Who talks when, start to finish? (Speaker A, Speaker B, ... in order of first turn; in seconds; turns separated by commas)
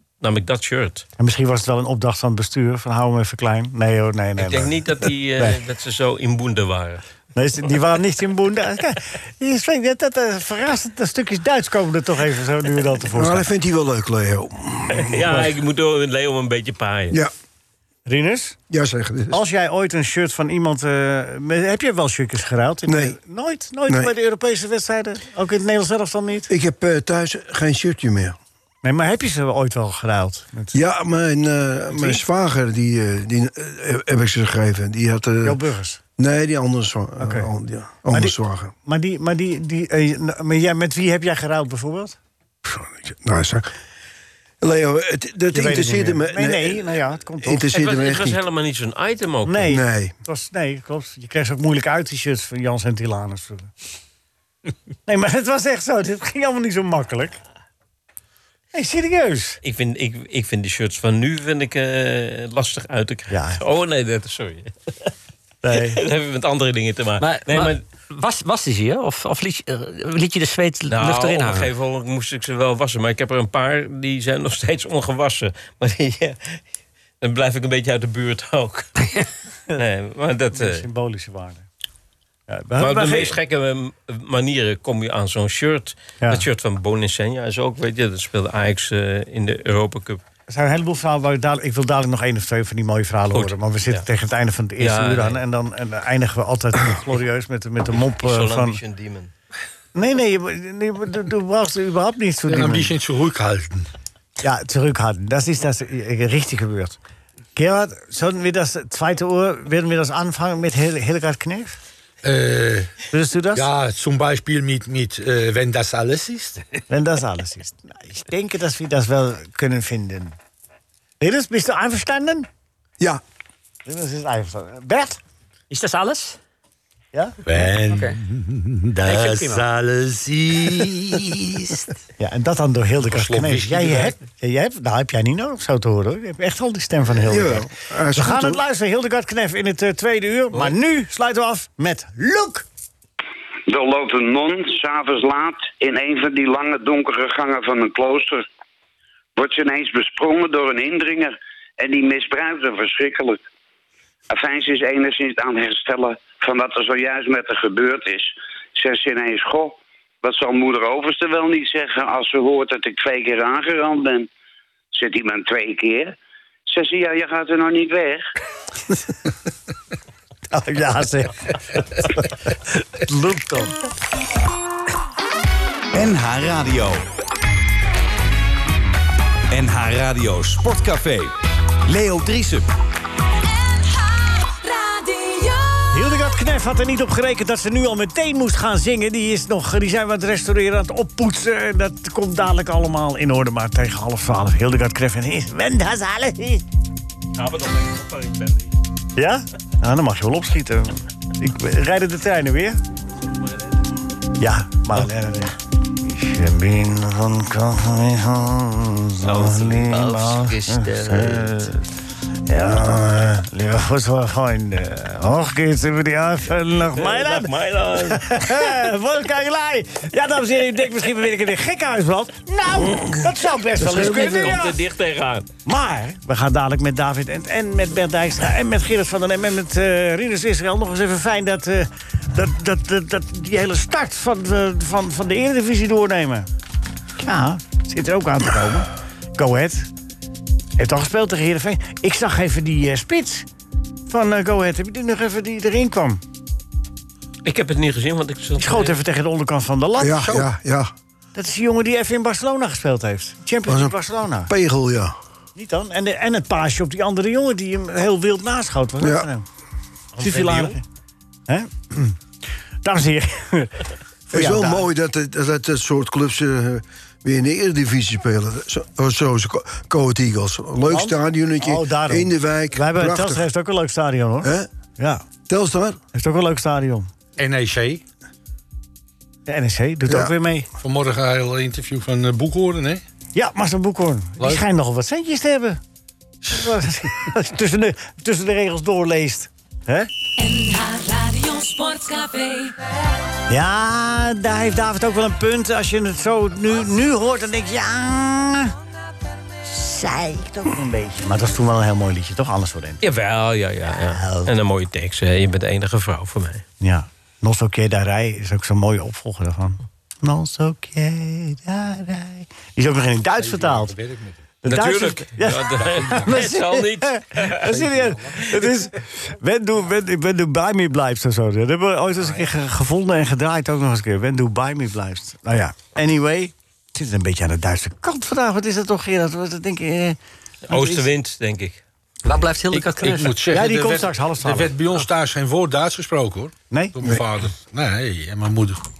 Speaker A: 0.2-1.1, Speaker B: 1.2-5.6, Speaker A: 4.4-7.0, Speaker B: 7.3-13.5, Speaker C: 13.1-15.5, Speaker A: 14.9-17.2, Speaker B: 18.1-18.6, Speaker C: 18.7-19.4, Speaker B: 19.3-26.5, Speaker C: 22.9-23.1, Speaker C: 26.5-28.4, Speaker B: 28.8-30.8, Speaker C: 30.7-35.6, Speaker B: 31.9-32.2, Speaker B: 35.4-36.0, Speaker C: 36.2-38.7, Speaker B: 37.2-37.5, Speaker B: 38.1-42.2, Speaker C: 42.6-43.7, Speaker C: 44.6-46.9, Speaker B: 45.5-47.7, Speaker C: 47.4-48.4, Speaker A: 47.7-49.8, Speaker B: 49.4-53.7, Speaker C: 49.7-50.1, Speaker B: 55.0-57.4, Speaker B: 58.7-59.6, Speaker A: 59.6-65.1, Speaker B: 63.3-63.6, Speaker B: 65.6-66.0, Speaker A: 65.7-67.8, Speaker D: 67.2-71.7, Speaker A: 70.9-76.6, Speaker A: 77.2-78.9, Speaker A: 79.7-80.8, Speaker B: 80.5-81.7, Speaker B: 82.5-83.4, Speaker A: 82.8-90.2, Speaker B: 90.5-98.8, Speaker A: 93.3-94.0, Speaker A: 94.8-95.4, Speaker A: 98.2-99.3, Speaker B: 99.9-102.9, Speaker E: 102.5-103.9, Speaker B: 104.4-107.0, Speaker B: 107.5-111.8, Speaker E: 112.2-113.0, Speaker B: 113.1-113.7, Speaker E: 113.5-116.6, Speaker B: 116.9-120.3, Speaker B: 121.2-122.5, Speaker B: 123.8-125.2, Speaker D: 125.7-126.4, Speaker E: 127.4-131.7, Speaker D: 127.9-128.2, Speaker D: 129.0-129.7, Speaker B: 132.2-142.7, Speaker E: 133.1-134.2, Speaker C: 137.2-138.6, Speaker F: 143.7-148.4, Speaker F: 149.3-153.4, Speaker F: 154.3-164.3, Speaker F: 164.9-166.2, Speaker F: 166.7-168.2, Speaker B: 170.5-173.7, Speaker G: 175.9-177.0, Speaker G: 179.5-181.3, Speaker G: 181.9-182.7, Speaker H: 183.5-186.3, Speaker B: 185.9-196.6, Speaker A: 197.3-198.7, Speaker B: 199.2-202.8, Speaker A: 203.3-203.7, Speaker B: 204.4-211.8, Speaker D: 209.3-211.6, Speaker A: 209.7-210.4, Speaker B: 212.5-224.8, Speaker A: 216.9-218.7, Speaker C: 223.8-224.6, Speaker A: 223.8-225.5, Speaker B: 225.6-236.5, Speaker B: 237.2-239.9, Speaker B: 240.8-243.5, Speaker B: 244.1-246.2, Speaker A: 247.4-249.0, Speaker B: 248.6-250.5, Speaker C: 250.0-250.9, Speaker B: 251.3-254.5, Speaker C: 253.7-253.9, Speaker C: 254.5-255.1, Speaker B: 255.6-259.4, Speaker C: 259.0-259.3, Speaker A: 260.1-260.8, Speaker B: 260.2-260.8, Speaker B: 261.5-262.2, Speaker B: 262.8-264.9, Speaker C: 264.3-273.4, Speaker B: 270.8-275.2, Speaker C: 274.4-274.7, Speaker C: 275.5-276.0, Speaker B: 276.1-277.1, Speaker E: 277.4-278.0, Speaker B: 279.4-280.7, Speaker E: 280.8-283.0, Speaker B: 283.3-285.8, Speaker B: 286.4-290.1, Speaker H: 290.4-292.7, Speaker B: 293.5-298.7, Speaker B: 299.6-303.0, Speaker A: 303.0-306.6, Speaker B: 304.1-304.5, Speaker B: 306.8-313.9, Speaker E: 313.4-314.4, Speaker B: 314.6-330.2, Speaker A: 314.6-317.6, Speaker E: 315.7-316.4, Speaker E: 317.6-318.7, Speaker E: 322.2-322.5, Speaker A: 330.7-331.8, Speaker B: 330.7-331.1, Speaker D: 332.2-333.4, Speaker E: 332.7-338.8, Speaker B: 333.5-334.8